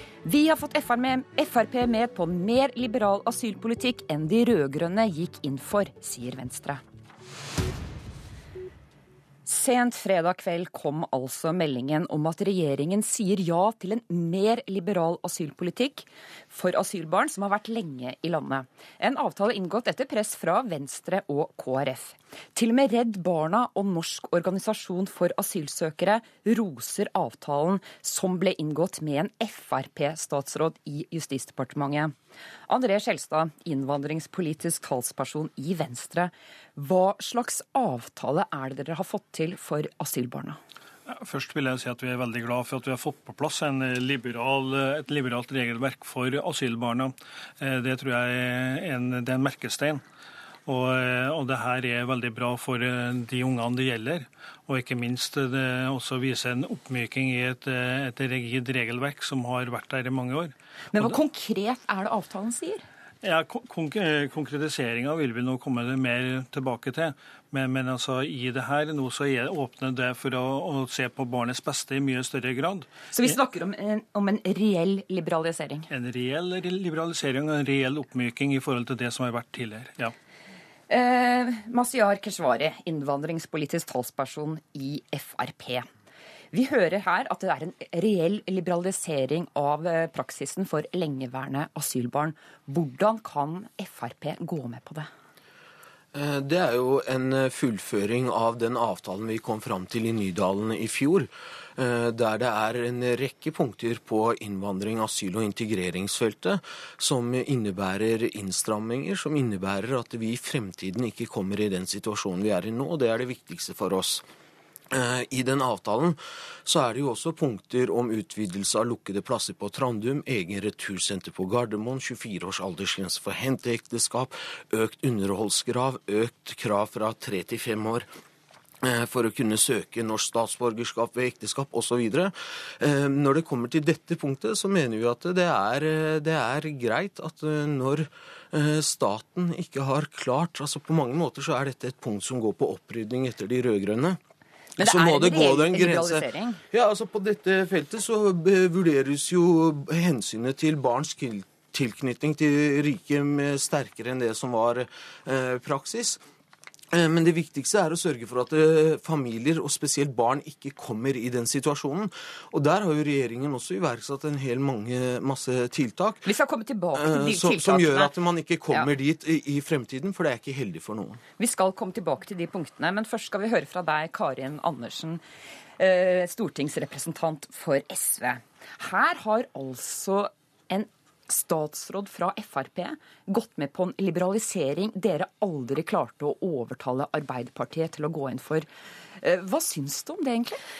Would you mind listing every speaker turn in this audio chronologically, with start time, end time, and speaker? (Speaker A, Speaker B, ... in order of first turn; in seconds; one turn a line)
Speaker A: 0.2-6.8
Speaker A: 9.4-32.1
Speaker A: 32.7-40.6
Speaker B: 41.1-50.0
Speaker B: 50.6-61.2
Speaker A: 60.9-62.8
Speaker B: 63.2-72.9
Speaker A: 73.1-75.9
Speaker B: 75.9-80.1
Speaker A: 80.9-85.8
Speaker A: 86.5-95.1
Speaker C: 96.1-114.2
Speaker C: 114.9-128.1
Speaker C: 128.8-144.2
Speaker A: 144.8-146.6
Speaker C: 144.8-156.2
Speaker C: 156.9-166.3
Speaker A: 166.2-168.1
Speaker C: 166.9-171.2
Speaker A: 171.4-175.2
Speaker A: 175.8-188.7
Speaker A: 189.2-190.6